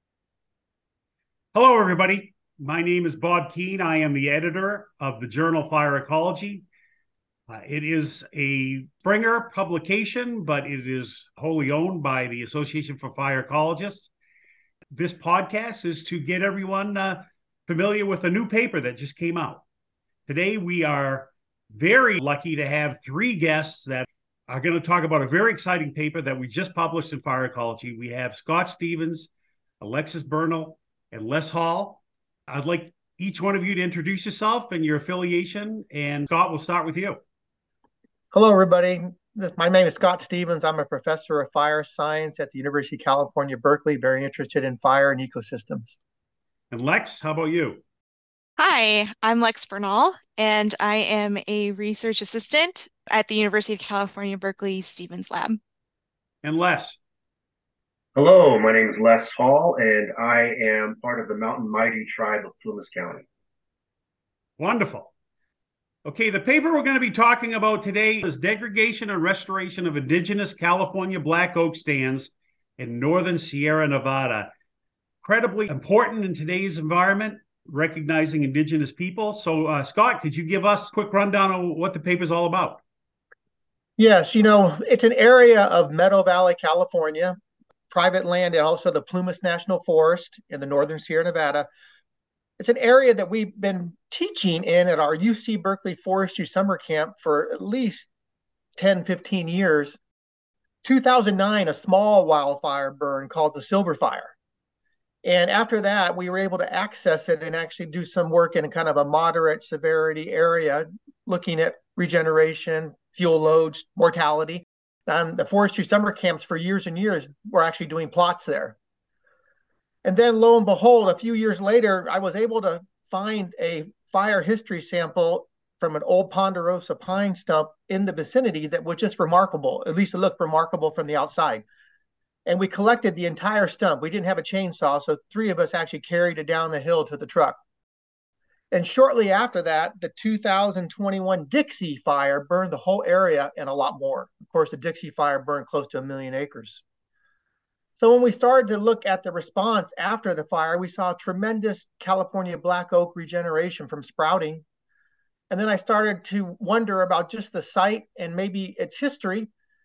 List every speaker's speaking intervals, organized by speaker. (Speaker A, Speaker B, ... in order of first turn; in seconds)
Speaker A: 1.5-6.7, 7.5-14.1, 14.9-19.6, 20.2-37.2, 46.7-47.8, 56.4-57.0, 64.6-65.1, 66.0-74.5, 75.2-82.8
Speaker B: 38.3-46.0, 84.0-87.4, 87.9-91.7, 92.6-98.1, 98.8-100.0, 100.8-104.3, 105.2-118.8, 120.0-131.6, 132.4-137.6, 138.7-146.8, 148.0-154.6, 155.5-159.5
Speaker C: 48.6-55.6
Speaker D: 58.1-63.2